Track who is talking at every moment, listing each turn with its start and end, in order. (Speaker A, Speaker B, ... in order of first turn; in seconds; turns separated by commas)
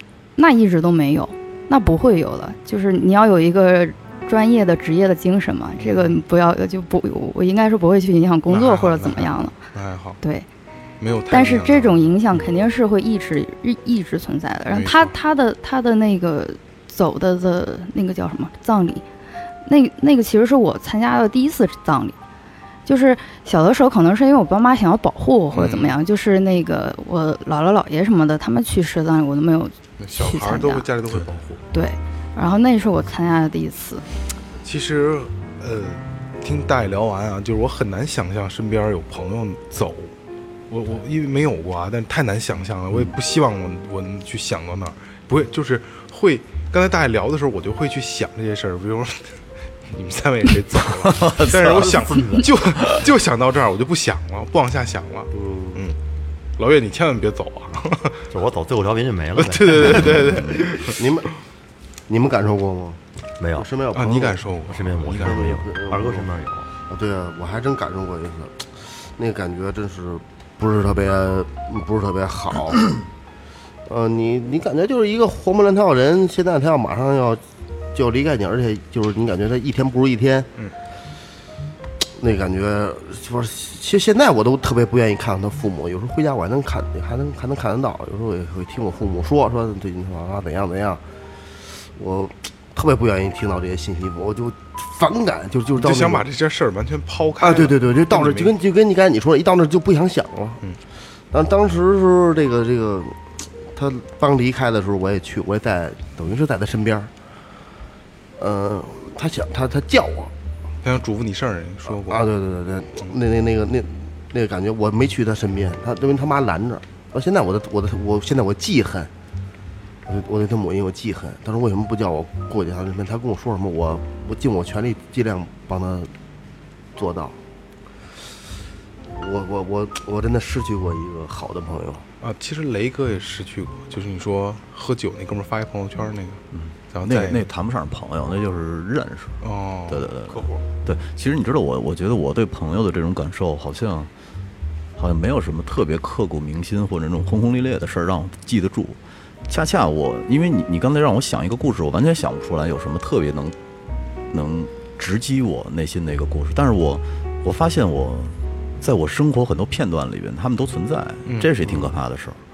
Speaker A: 0.4-9.6, Speaker B: 5.8-6.2, Speaker B: 8.5-10.2, Speaker B: 11.0-12.0, Speaker A: 11.3-19.0, Speaker B: 14.7-15.1, Speaker A: 19.7-22.2, Speaker A: 22.9-30.9, Speaker B: 25.5-26.0, Speaker B: 30.0-31.6, Speaker A: 31.7-34.0, Speaker B: 34.6-40.1, Speaker B: 40.7-49.3, Speaker B: 49.9-56.0, Speaker C: 51.0-52.0, Speaker D: 52.1-52.5, Speaker E: 55.3-55.8, Speaker B: 56.6-58.2, Speaker D: 58.3-60.5, Speaker B: 59.4-61.0, Speaker E: 60.9-61.3, Speaker E: 62.1-63.0, Speaker D: 63.4-63.7, Speaker E: 63.5-64.4, Speaker B: 63.9-65.5, Speaker D: 64.7-66.7, Speaker E: 65.1-66.3, Speaker E: 66.9-73.0, Speaker E: 73.9-77.4, Speaker E: 77.9-80.5, Speaker E: 82.2-91.0, Speaker E: 92.0-96.3, Speaker B: 95.8-98.5, Speaker E: 97.4-100.6, Speaker E: 101.3-103.2, Speaker E: 103.7-107.1, Speaker E: 108.4-110.3, Speaker B: 110.8-112.2, Speaker E: 112.1-119.1, Speaker E: 120.1-126.1, Speaker E: 127.0-127.4, Speaker E: 129.1-132.1, Speaker B: 132.2-137.4, Speaker C: 136.5-144.1, Speaker B: 139.4-140.6, Speaker C: 145.0-153.6, Speaker C: 154.3-162.4, Speaker B: 161.3-161.5